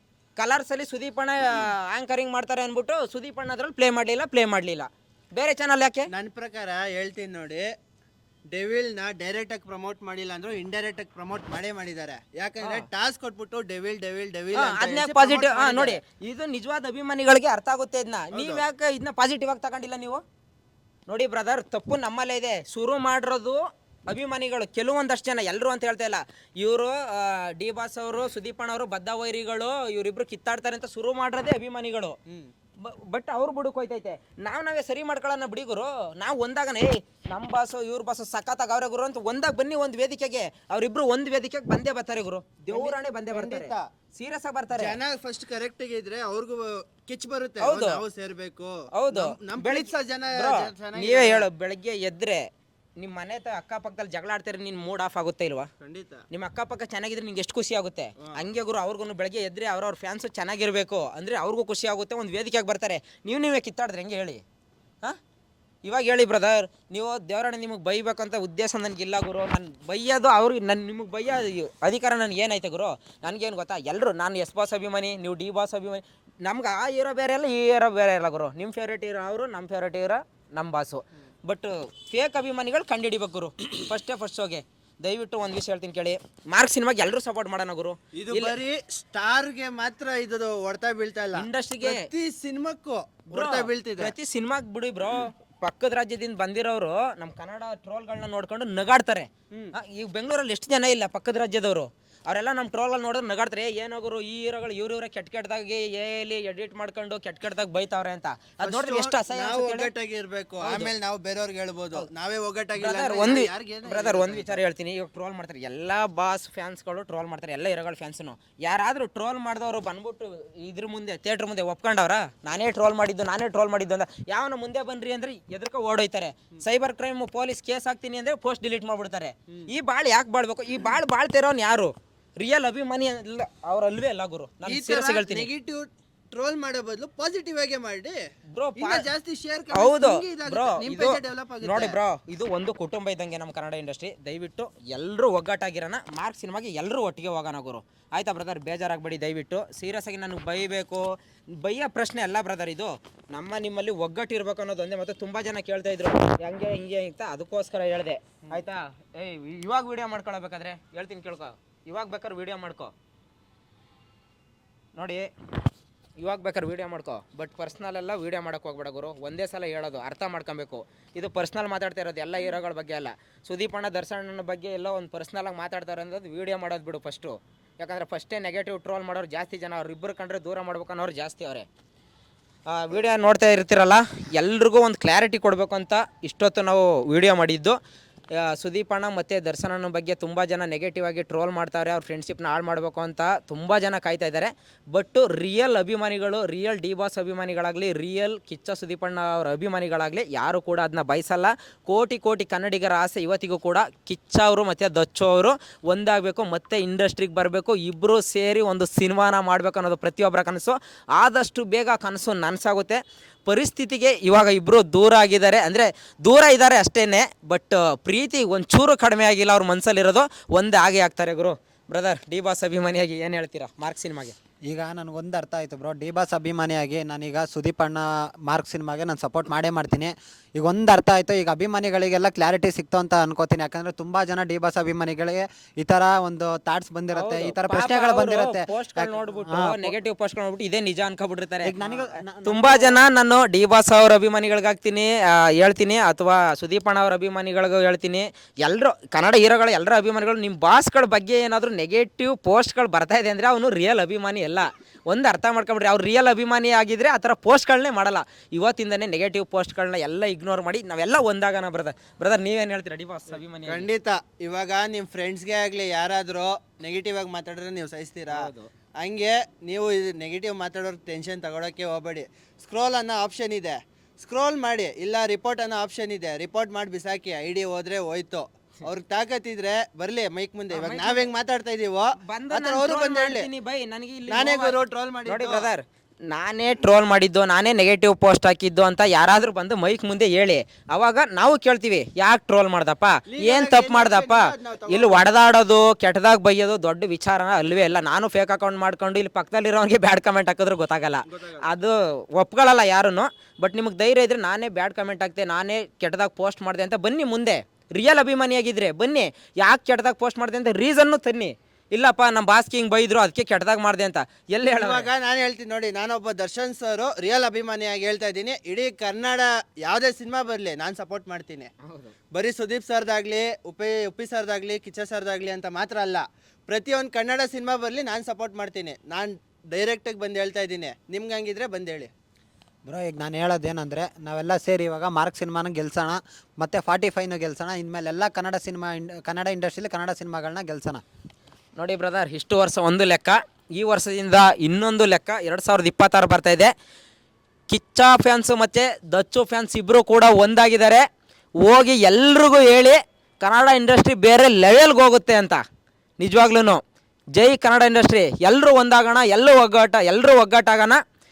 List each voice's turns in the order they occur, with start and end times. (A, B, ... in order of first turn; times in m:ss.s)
0:00.4-0:06.1 A
0:06.1-0:07.7 B
0:08.5-0:16.0 B
0:12.6-0:12.9 A
0:14.5-0:20.2 A
0:18.3-0:18.6 B
0:21.1-0:32.2 A
0:32.8-0:45.0 A
0:42.7-0:43.9 B
0:44.7-0:51.5 B
0:47.6-0:48.0 A
0:48.9-0:52.5 A
0:53.0-0:55.7 A
0:55.8-0:56.2 B
0:56.3-1:04.4 A
1:05.8-1:28.6 A
1:28.2-1:34.1 B
1:31.3-1:32.1 A
1:33.3-1:49.9 A
1:48.6-1:54.6 B
1:50.6-1:50.9 A
1:52.8-2:15.5 A
2:14.6-2:18.2 B
2:18.5-2:19.1 A
2:18.8-2:22.0 B
2:19.7-2:42.9 A
2:44.9-2:45.3 A
2:46.2-3:01.7 A
3:02.7-3:07.8 A
3:08.3-3:44.4 A
3:44.7-4:00.0 C
3:57.1-4:23.9 A
4:01.6-4:03.0 C
4:23.6-4:28.5 B
4:28.3-4:28.7 A
4:29.0-4:43.5 B
4:40.7-4:41.3 A
4:42.2-5:15.1 A
4:44.3-4:45.7 B
4:53.3-4:55.2 B
5:01.3-5:01.7 B
5:14.7-5:21.7 B
5:21.8-5:22.1 A
5:22.3-5:32.1 B
5:32.8-5:41.0 C
5:41.8-5:46.7 A
5:47.7-5:51.0 A
5:51.6-5:55.6 A
5:56.2-5:56.8 A
5:57.3-6:01.0 A